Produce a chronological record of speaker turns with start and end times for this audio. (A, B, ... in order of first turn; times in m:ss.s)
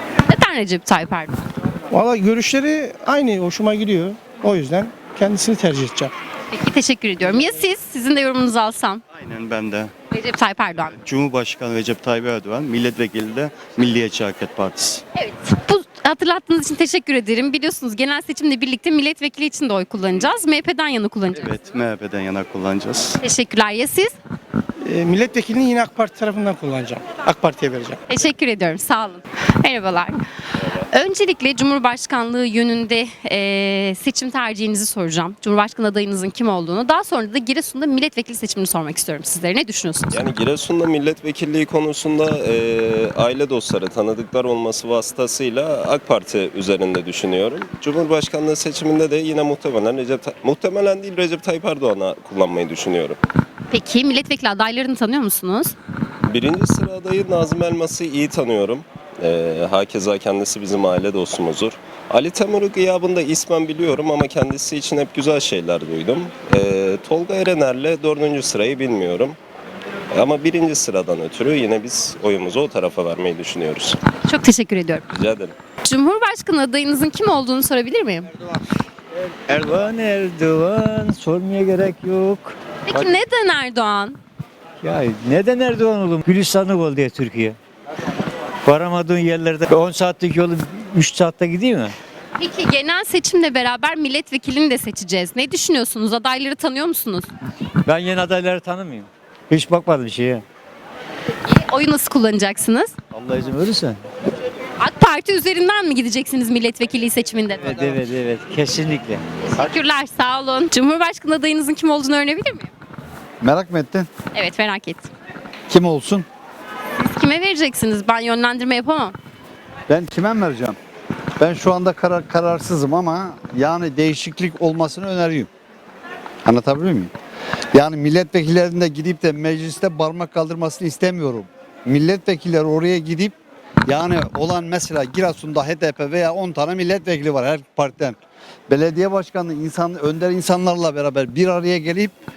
0:00.3-0:01.3 A
0:01.9-0:06.1 B
0:06.5-0:09.0 A
0:09.2-0:09.9 C
0:10.1-0:11.0 A
0:11.0-0:15.0 C
0:15.2-0:21.6 A
0:21.4-0:23.1 C
0:23.2-0:24.1 A
0:24.8-0:27.9 B
0:28.1-0:30.2 A
0:30.9-0:40.2 A
0:40.1-0:53.2 D
0:53.7-0:55.7 A
0:56.2-1:09.4 D
1:10.1-1:14.0 D
1:14.3-1:15.0 A
1:15.1-1:15.5 D
1:15.8-1:18.3 A
1:19.5-1:22.4 E
1:19.6-1:22.4 B
1:22.9-1:24.2 A
1:24.8-1:27.5 E
1:24.9-1:27.5 B
1:28.7-1:30.5 B
1:28.7-1:31.9 E
1:31.3-1:31.7 B
1:32.4-1:37.3 A
1:37.9-1:40.4 B
1:37.9-1:39.0 E
1:39.6-1:40.4 E
1:41.5-1:42.9 A
1:43.3-1:43.9 E
1:43.3-1:43.8 B
1:44.8-1:48.0 A
1:47.7-1:49.2 E
1:47.9-1:49.0 B
1:49.5-1:52.7 A
1:53.4-1:54.1 F
1:54.3-1:55.1 A
1:55.7-1:56.2 F
1:57.0-1:59.2 A
1:59.9-2:00.8 F
2:01.4-2:05.5 F
2:06.4-2:07.1 F
2:07.7-2:13.3 F
2:13.8-2:18.2 F
2:18.7-2:22.1 F